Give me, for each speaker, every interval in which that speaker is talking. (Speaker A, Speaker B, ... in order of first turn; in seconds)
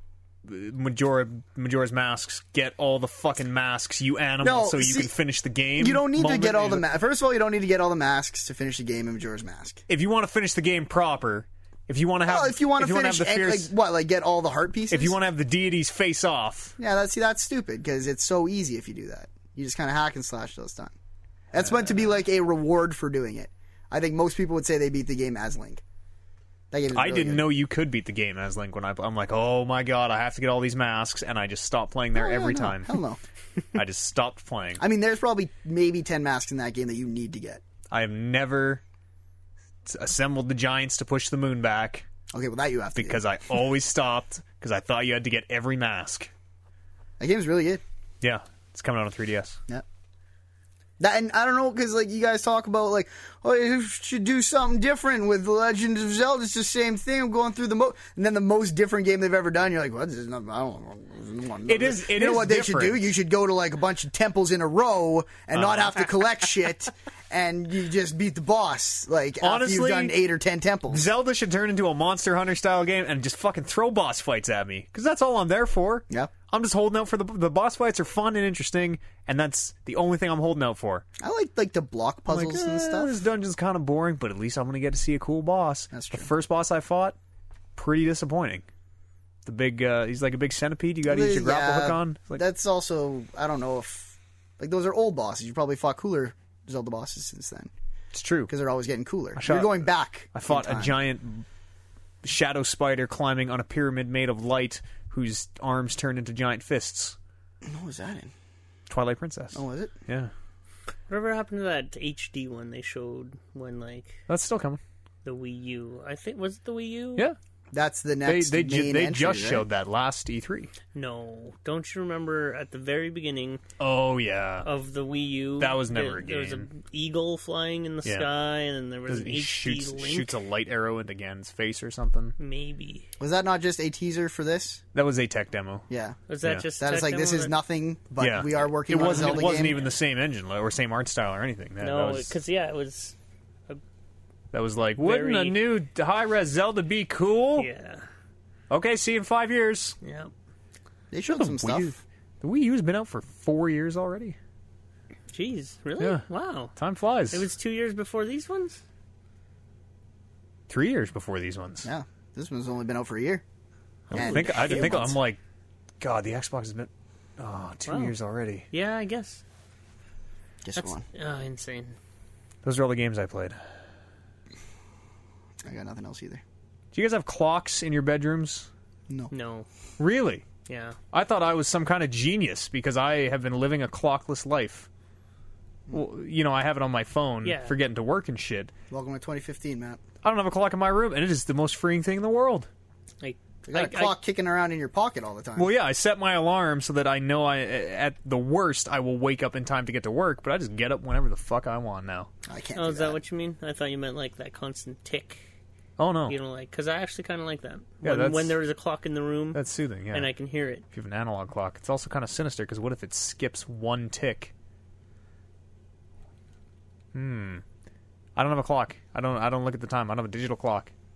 Speaker A: 0.5-6.8, 9.9-13.7, 14.9-16.8, 21.6-22.1, 26.9-32.9, 33.7-34.8, 37.9-38.8, 39.9-42.0, 43.0-46.3, 48.2-49.6, 61.7-63.1, 65.5-66.1, 69.4-70.1, 70.9-81.0, 82.3-87.2, 87.8-88.7, 89.5-92.4, 98.1-98.5, 99.4-101.5, 102.2-107.2, 108.9-110.3, 114.3-114.8, 118.3-120.7, 123.8-124.7, 125.6-126.7, 128.1-128.3, 129.1-132.3, 134.9-135.9, 138.2-142.4, 144.5-147.7, 148.7-150.0, 151.3-154.4, 156.0-156.2, 156.8-157.5, 160.7-161.9, 164.1-165.4, 166.0-168.7, 172.6-173.6, 176.9-178.7, 180.0-180.5, 181.1-184.9, 185.9-188.7, 190.2-192.7, 195.6-202.3, 206.0-206.4, 208.0-208.6, 209.5-210.3, 210.9-214.5, 217.1-217.6, 218.4-220.9
Speaker B: 4.4-5.1, 5.8-9.8, 12.3-15.1, 16.8-20.9, 21.5-25.8, 26.7-27.4, 32.2-33.2, 34.8-37.6, 42.3-43.2, 47.2-47.8, 51.0-71.1, 81.2-83.1, 85.9-86.3, 91.0-97.7, 98.5-100.9, 107.6-108.3, 109.5-109.9, 117.7-119.7, 133.2-134.8, 135.9-136.2, 136.8-139.8, 151.1-151.9, 161.8-163.4, 164.1-165.2, 170.7-171.1, 175.6-176.4, 188.9-190.0, 193.7-195.7, 202.5-203.2
Speaker C: 111.1-114.2, 115.2-117.3, 120.9-123.6, 124.6-130.3, 132.4-133.1, 136.3-137.5, 138.9-139.8, 141.8-143.2, 145.0-145.6, 147.6-148.1, 150.0-150.3, 155.3-156.8, 157.3-158.8, 164.1-164.9, 167.9-168.1, 168.7-169.4, 170.8-172.0, 179.3-179.7, 180.7-181.0, 187.4-187.7, 193.2-194.2, 202.8-205.4, 206.3-209.6, 210.1-210.8